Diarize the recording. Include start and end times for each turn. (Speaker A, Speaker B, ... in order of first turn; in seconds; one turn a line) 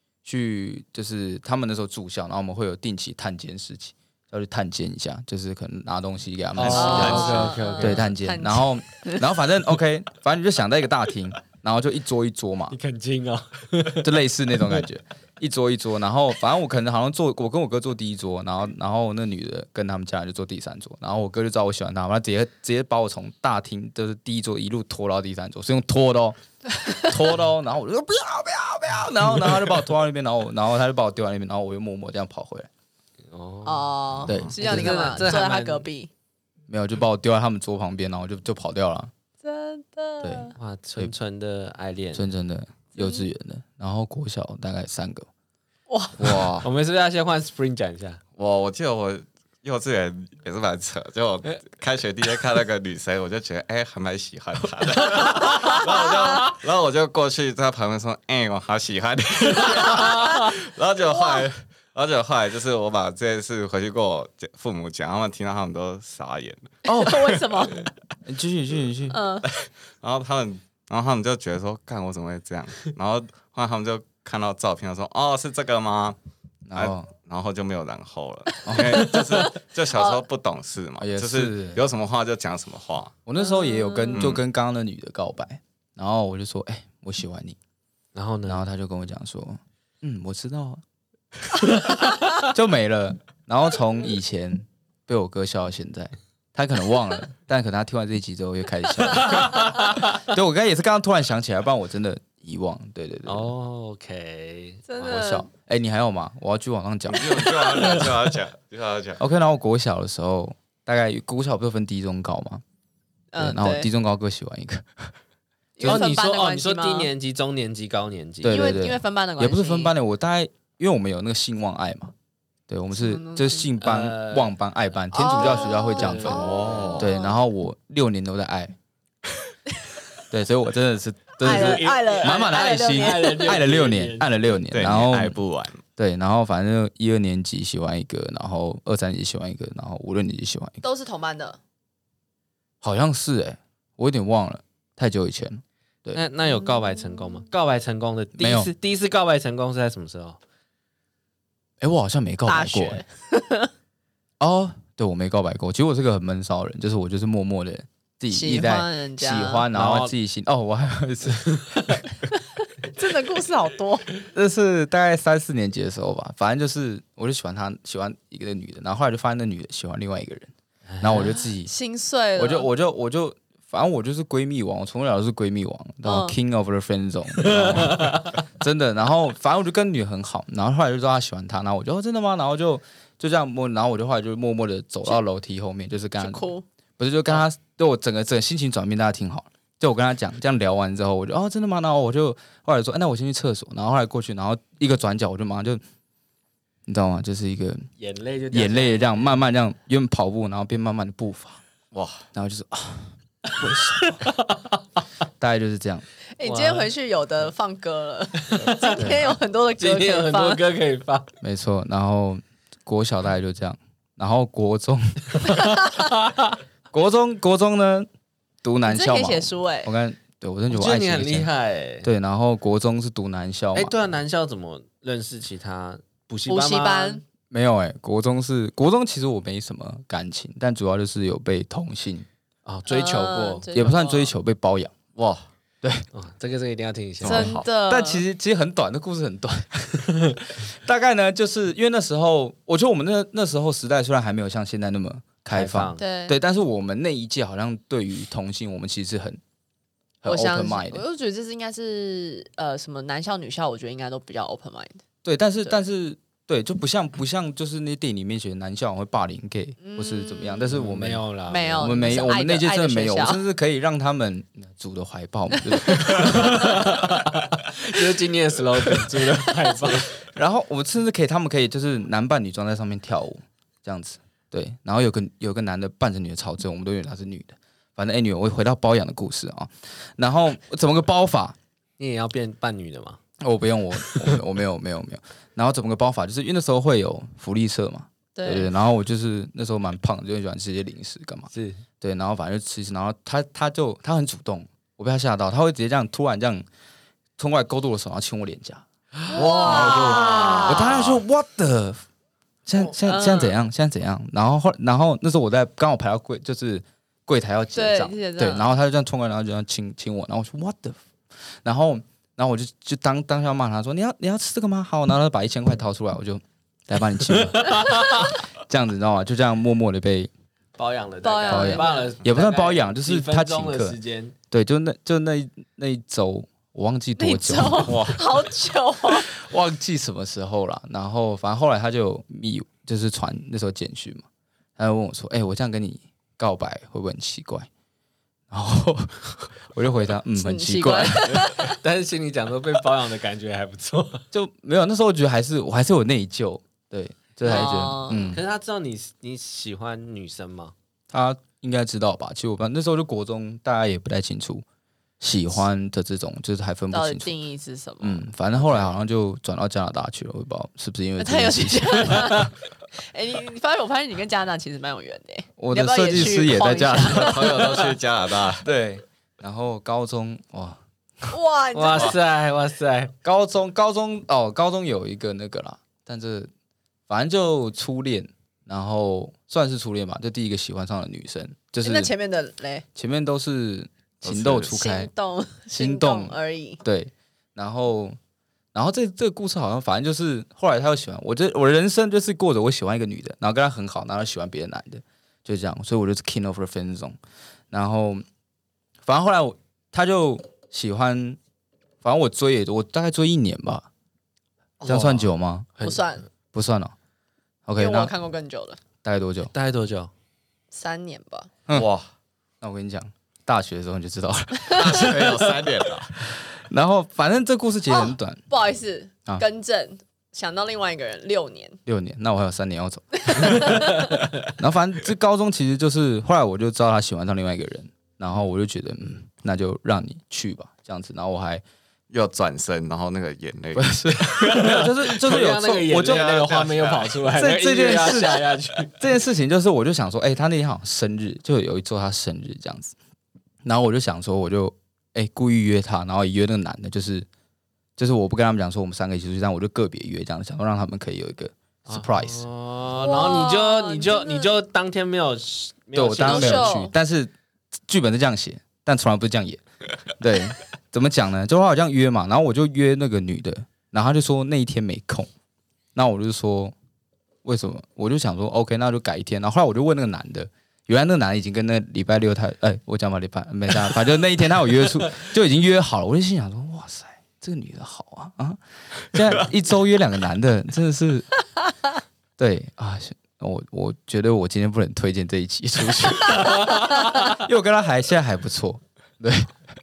Speaker A: 0.2-12.8
Speaker B: 6.5-8.1
Speaker C: 6.7-9.2
Speaker D: 6.8-7.4
Speaker B: 12.7-14.1
Speaker A: 14.0-32.7
Speaker B: 33.3-34.0
Speaker C: 33.6-36.1
Speaker A: 34.2-35.4
Speaker B: 34.6-35.9
Speaker A: 36.7-39.1
Speaker C: 39.4-40.5
Speaker A: 40.2-41.1
Speaker B: 40.6-42.2
Speaker A: 42.1-45.3
Speaker C: 42.9-43.3
Speaker C: 45.9-46.5
Speaker D: 46.2-46.7
Speaker B: 46.6-48.2
Speaker D: 48.4-67.9
Speaker C: 55.7-56.4
Speaker C: 60.0-60.3
Speaker C: 61.1-61.4
Speaker A: 66.8-67.4
Speaker C: 66.9-67.8
Speaker A: 68.2-69.2
Speaker C: 69.1-69.5
Speaker D: 69.5-76.2
Speaker A: 76.7-77.1
Speaker D: 76.7-83.1
Speaker A: 78.6-79.1
Speaker C: 79.9-80.2
Speaker A: 81.0-81.8
Speaker A: 83.2-87.6
Speaker C: 83.4-84.3
Speaker D: 84.1-84.4
Speaker B: 88.1-88.6
Speaker A: 88.5-90.8
Speaker A: 92.4-103.5
Speaker B: 103.2-105.1
Speaker C: 104.9-105.5
Speaker A: 105.0-108.0
Speaker D: 107.1-109.2
Speaker A: 109.2-112.6
Speaker C: 113.3-113.9
Speaker A: 113.4-115.1
Speaker C: 115.8-117.1
Speaker A: 115.8-116.1
Speaker B: 115.8-118.7
Speaker A: 118.4-122.1
Speaker C: 118.5-119.9
Speaker A: 122.7-128.7
Speaker C: 122.9-123.7
Speaker B: 123.8-124.5
Speaker C: 125.1-127.4
Speaker B: 125.3-127.0
Speaker D: 126.3-127.0
Speaker A: 130.3-135.4
Speaker C: 131.4-133.6
Speaker B: 131.4-134.5
Speaker D: 134.7-135.8
Speaker A: 136.0-140.8
Speaker C: 140.8-141.6
Speaker A: 142.8-146.2
Speaker B: 146.1-150.4
Speaker C: 146.4-147.4
Speaker A: 148.4-148.7
Speaker A: 151.8-153.0
Speaker C: 152.4-153.7
Speaker A: 154.4-161.9
Speaker C: 158.3-159.7
Speaker B: 159.7-160.1
Speaker C: 162.8-164.1
Speaker A: 164.3-171.7
Speaker B: 171.0-171.3
Speaker C: 171.6-172.7
Speaker A: 172.3-186.4
Speaker C: 176.0-176.4
Speaker B: 177.5-178.3
Speaker C: 186.2-186.6
Speaker A: 187.0-195.8
Speaker A: 196.8-197.9
Speaker B: 198.0-199.3
Speaker A: 198.5-201.6
Speaker D: 201.9-202.2
Speaker A: 202.3-204.2
Speaker A: 205.4-206.0
Speaker C: 206.4-210.6
Speaker B: 206.4-206.9
Speaker B: 208.5-209.1
Speaker A: 208.9-209.3
Speaker B: 209.8-211.3
Speaker A: 211.4-215.4
Speaker B: 215.9-216.6
Speaker A: 216.9-218.1
Speaker A: 218.6-221.5
Speaker C: 218.8-219.9
Speaker B: 220.7-222.1
Speaker A: 222.0-223.9
Speaker B: 223.7-227.2
Speaker C: 226.5-227.2
Speaker A: 227.5-232.3
Speaker B: 232.6-233.7
Speaker C: 232.9-234.3
Speaker A: 233.7-234.9
Speaker D: 235.2-235.4
Speaker B: 236.1-237.5
Speaker A: 237.2-249.4
Speaker C: 237.2-238.2
Speaker D: 237.3-237.6
Speaker B: 245.5-246.0
Speaker C: 246.0-246.4
Speaker A: 250.2-251.0
Speaker C: 250.2-255.0
Speaker A: 255.2-267.0
Speaker C: 259.8-260.8
Speaker B: 260.7-262.1
Speaker C: 261.5-263.4
Speaker B: 265.9-270.2
Speaker A: 269.9-281.6
Speaker B: 282.0-283.2
Speaker A: 283.4-296.6
Speaker B: 284.0-284.3
Speaker C: 288.3-288.7
Speaker B: 291.5-291.8
Speaker A: 297.4-302.0
Speaker C: 299.3-300.9
Speaker D: 299.6-301.2
Speaker A: 302.6-320.3
Speaker C: 303.1-303.5
Speaker C: 307.7-308.7
Speaker B: 317.6-318.0
Speaker B: 320.8-324.3
Speaker C: 321.2-322.1
Speaker A: 321.5-324.0
Speaker A: 324.5-328.2
Speaker C: 327.2-329.3
Speaker D: 327.8-328.2
Speaker A: 329.1-334.2
Speaker A: 334.8-337.7
Speaker A: 338.5-341.5
Speaker C: 340.4-341.8
Speaker B: 341.2-344.2
Speaker A: 344.3-348.4
Speaker C: 347.4-348.4
Speaker B: 348.3-350.7
Speaker A: 351.1-354.6
Speaker A: 355.2-357.3
Speaker C: 356.9-358.2
Speaker A: 358.0-362.5
Speaker C: 361.2-367.7
Speaker A: 365.6-367.6
Speaker D: 367.0-368.7
Speaker A: 368.6-370.8
Speaker C: 371.3-372.1
Speaker B: 371.7-373.1
Speaker A: 373.2-376.5
Speaker A: 377.1-382.1
Speaker C: 381.8-382.8
Speaker A: 382.9-385.1
Speaker D: 384.2-384.8
Speaker C: 384.6-386.8
Speaker A: 385.7-388.2
Speaker A: 388.7-397.2
Speaker A: 397.7-398.2
Speaker A: 399.0-401.4
Speaker A: 402.0-403.9
Speaker B: 404.8-405.2
Speaker A: 404.8-405.7
Speaker B: 405.8-406.1
Speaker C: 405.8-406.2
Speaker A: 406.5-406.9
Speaker A: 407.6-408.1
Speaker C: 407.8-408.8
Speaker A: 409.0-409.5
Speaker B: 409.5-410.1
Speaker C: 410.7-411.5
Speaker D: 411.7-412.1
Speaker A: 412.6-415.6
Speaker D: 414.7-416.2
Speaker A: 416.2-418.4
Speaker C: 417.9-421.8
Speaker A: 421.9-431.6
Speaker C: 423.3-424.0
Speaker D: 432.1-434.3
Speaker A: 433.7-436.5
Speaker B: 434.4-438.9
Speaker D: 435.9-437.2
Speaker A: 437.3-442.9
Speaker D: 437.9-438.3
Speaker A: 443.6-447.3
Speaker A: 448.0-452.4
Speaker B: 451.9-456.7
Speaker C: 452.9-454.6
Speaker A: 455.9-457.3
Speaker C: 456.2-456.9
Speaker A: 457.9-459.6
Speaker A: 460.2-465.3
Speaker A: 465.9-466.7
Speaker A: 467.4-481.3
Speaker A: 482.4-489.5
Speaker B: 486.3-487.4